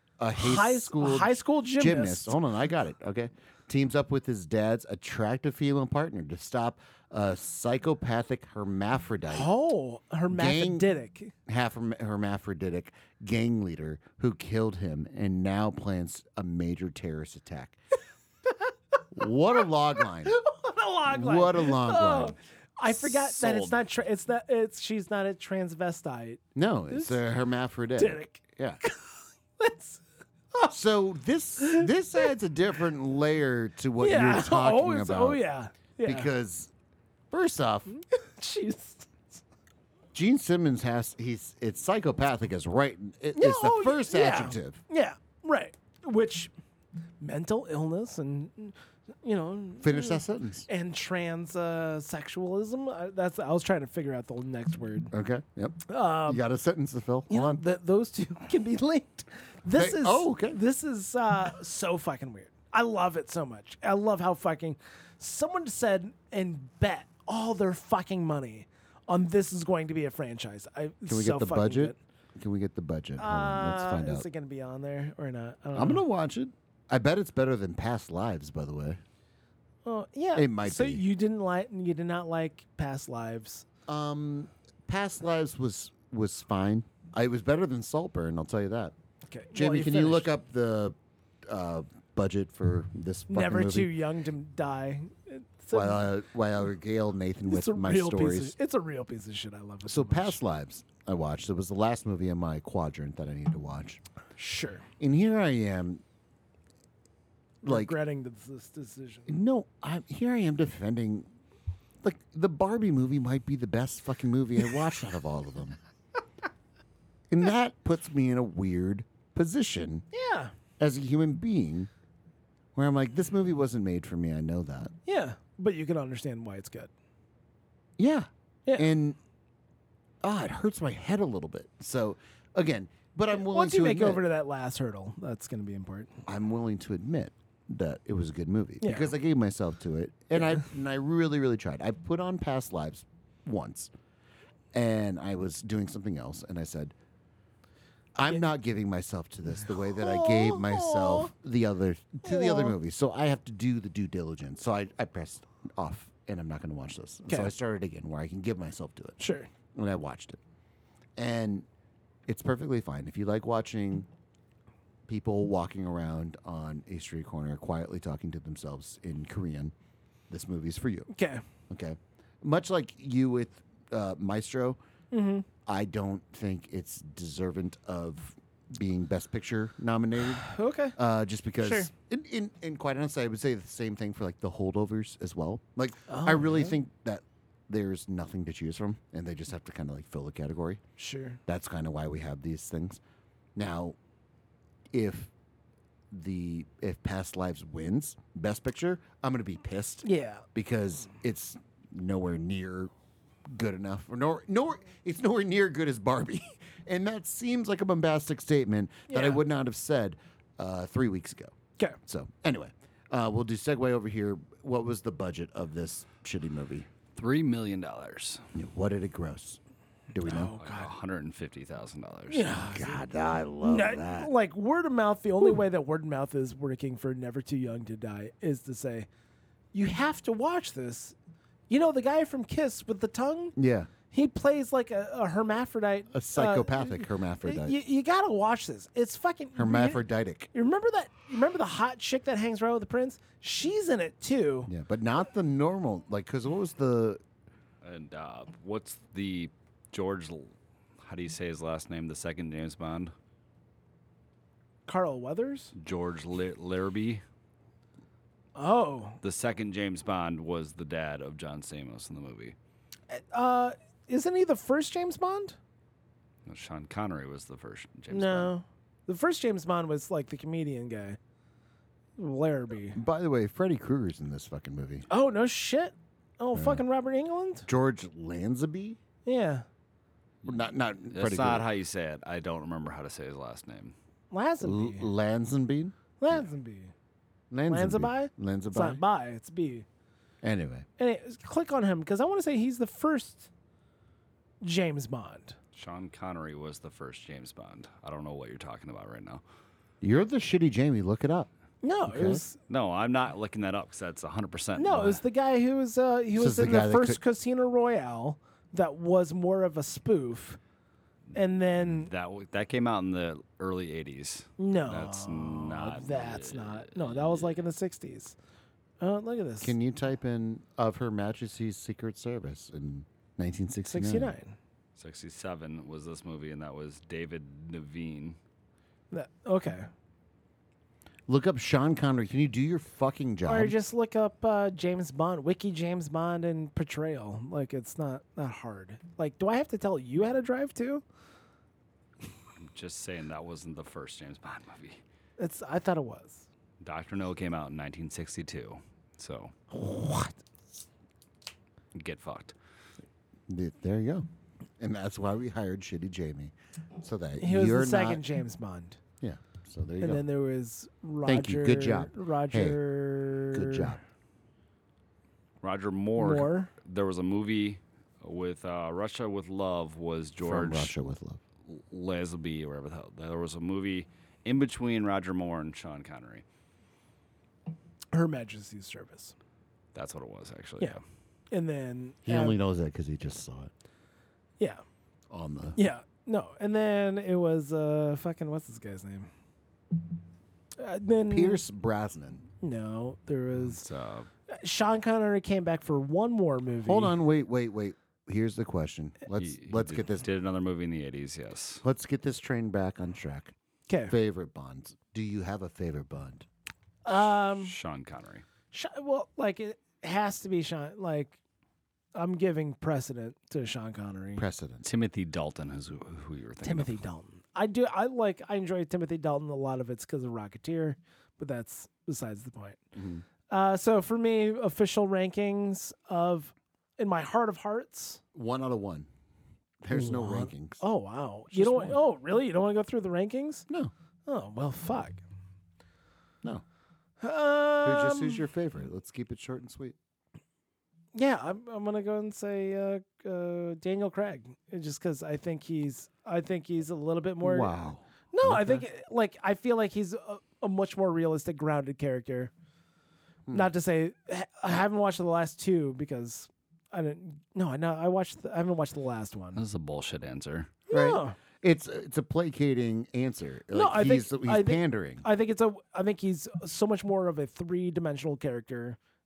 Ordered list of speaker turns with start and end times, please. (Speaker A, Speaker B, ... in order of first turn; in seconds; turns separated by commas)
Speaker A: 0.2-9.5, Speaker B: 0.3-2.4, Speaker B: 9.3-11.3, Speaker A: 10.3-10.9, Speaker A: 11.5-17.8, Speaker A: 19.1-20.4, Speaker B: 20.2-27.2, Speaker A: 21.1-22.4, Speaker C: 23.1-23.8, Speaker A: 26.6-28.8, Speaker B: 28.0-30.0, Speaker A: 30.7-35.4, Speaker B: 31.6-31.9, Speaker B: 34.0-36.3, Speaker A: 36.0-36.7, Speaker A: 37.3-37.9, Speaker B: 37.9-39.1, Speaker A: 40.1-44.8, Speaker B: 43.4-46.5, Speaker B: 47.2-55.1, Speaker A: 49.8-50.7, Speaker A: 55.1-57.6, Speaker B: 55.9-56.4, Speaker B: 57.3-72.0, Speaker A: 59.7-60.6, Speaker A: 71.1-74.3, Speaker B: 73.2-76.0, Speaker A: 75.7-79.0, Speaker B: 79.8-83.7, Speaker A: 80.3-81.0, Speaker A: 83.9-89.0, Speaker B: 89.3-90.3, Speaker A: 89.5-93.9, Speaker B: 93.3-96.1, Speaker A: 95.7-98.5, Speaker B: 97.5-100.4, Speaker A: 99.9-104.0, Speaker B: 104.4-104.9, Speaker A: 105.0-106.0, Speaker A: 107.6-108.0, Speaker B: 107.6-109.3, Speaker A: 109.3-111.3, Speaker A: 112.0-115.8, Speaker A: 117.3-120.0, Speaker B: 120.1-120.5, Speaker A: 120.8-121.9, Speaker A: 122.8-124.9, Speaker B: 125.1-126.9, Speaker A: 128.0-129.2, Speaker A: 130.2-134.2, Speaker B: 133.3-136.2, Speaker A: 136.3-143.9, Speaker B: 138.8-139.1, Speaker A: 144.7-146.9, Speaker A: 148.2-159.2, Speaker B: 149.7-151.3, Speaker B: 152.2-152.7, Speaker B: 159.2-159.5, Speaker A: 159.7-160.4, Speaker A: 161.2-161.7, Speaker A: 162.3-164.1, Speaker A: 165.1-169.7, Speaker A: 170.3-171.1, Speaker B: 171.1-171.4, Speaker A: 171.7-174.8, Speaker B: 175.1-175.5, Speaker A: 175.7-190.8, Speaker B: 180.4-181.0, Speaker B: 181.6-181.9, Speaker B: 186.1-186.8, Speaker B: 191.0-191.4, Speaker A: 191.5-193.0, Speaker A: 193.6-194.0, Speaker A: 194.9-195.3, Speaker A: 196.1-202.9, Speaker B: 200.0-200.4, Speaker A: 203.5-216.9, Speaker B: 209.1-209.4, Speaker C: 217.2-218.4, Speaker A: 218.5-219.6, Speaker A: 220.1-220.6, Speaker B: 220.2-220.9, Speaker C: 220.6-222.7, Speaker B: 222.3-223.1, Speaker A: 222.7-224.3, Speaker B: 223.6-229.1, Speaker B: 229.7-231.2, Speaker B: 231.7-233.6, Speaker A: 233.6-233.9, Speaker B: 234.1-240.0, Speaker A: 236.1-237.8, Speaker A: 239.6-240.5, Speaker B: 240.5-244.7, Speaker A: 244.7-247.2, Speaker C: 247.8-253.1, Speaker B: 254.9-255.7, Speaker C: 255.8-257.2, Speaker B: 258.6-259.2, Speaker C: 259.2-262.6, Speaker B: 263.1-265.6, Speaker C: 266.5-268.5, Speaker B: 268.1-271.2, Speaker B: 272.2-273.0, Speaker A: 272.9-275.1, Speaker B: 275.1-277.7, Speaker A: 276.6-276.8, Speaker A: 277.7-279.0, Speaker B: 279.3-279.6, Speaker A: 280.4-281.7, Speaker C: 281.1-283.9, Speaker B: 284.3-285.1, Speaker A: 284.6-285.9, Speaker B: 286.2-286.9, Speaker A: 287.5-289.0, Speaker B: 287.7-289.9, Speaker A: 290.4-290.9, Speaker B: 291.0-293.5, Speaker B: 294.6-295.6, Speaker C: 295.8-299.4, Speaker A: 300.0-301.5, Speaker B: 301.8-302.6, Speaker A: 302.1-302.4, Speaker C: 302.7-305.2, Speaker B: 304.8-310.6, Speaker A: 306.4-307.2, Speaker B: 311.4-312.1, Speaker C: 312.0-317.6, Speaker B: 314.6-318.4, Speaker B: 319.0-319.8, Speaker A: 319.6-324.4, Speaker B: 323.9-324.6, Speaker C: 325.0-328.4, Speaker B: 329.1-329.9, Speaker A: 331.3-333.8, Speaker B: 333.5-341.0, Speaker C: 342.6-345.0, Speaker B: 345.4-346.5, Speaker C: 346.8-349.5, Speaker B: 349.7-350.4, Speaker C: 351.9-352.5, Speaker A: 353.5-354.2, Speaker A: 354.8-358.2, Speaker B: 357.4-359.0, Speaker A: 359.2-360.2, Speaker B: 360.0-364.0, Speaker A: 361.2-362.8, Speaker A: 363.5-364.0, Speaker C: 365.6-370.9, Speaker B: 366.2-366.7, Speaker A: 370.4-371.4, Speaker C: 371.7-376.4, Speaker B: 378.1-379.4, Speaker C: 379.9-381.0, Speaker B: 381.5-382.6, Speaker A: 382.2-383.7, Speaker A: 385.3-385.8, Speaker B: 385.8-389.3, Speaker B: 390.8-391.6, Speaker A: 391.3-392.5, Speaker B: 392.6-393.8, Speaker C: 393.6-394.3, Speaker B: 394.5-397.1, Speaker A: 396.8-400.3, Speaker C: 399.4-401.8, Speaker A: 401.8-403.5, Speaker B: 403.9-404.2, Speaker A: 404.1-406.5, Speaker B: 407.1-407.7, Speaker C: 407.6-408.4, Speaker B: 408.7-411.4, Speaker B: 412.1-414.4, Speaker A: 414.4-414.9, Speaker C: 414.8-417.0, Speaker B: 416.6-422.8, Speaker A: 422.9-423.2, Speaker B: 423.5-428.2, Speaker A: 428.3-429.1, Speaker A: 429.8-430.8, Speaker B: 429.9-433.7, Speaker A: 431.5-432.0, Speaker B: 434.3-435.2, Speaker B: 437.2-438.4, Speaker A: 437.8-439.9, Speaker B: 441.1-447.7, Speaker A: 447.4-448.9, Speaker B: 448.3-452.5, Speaker B: 453.5-459.6, Speaker C: 459.6-460.7, Speaker B: 460.9-461.4, Speaker A: 460.9-465.2, Speaker B: 463.7-469.0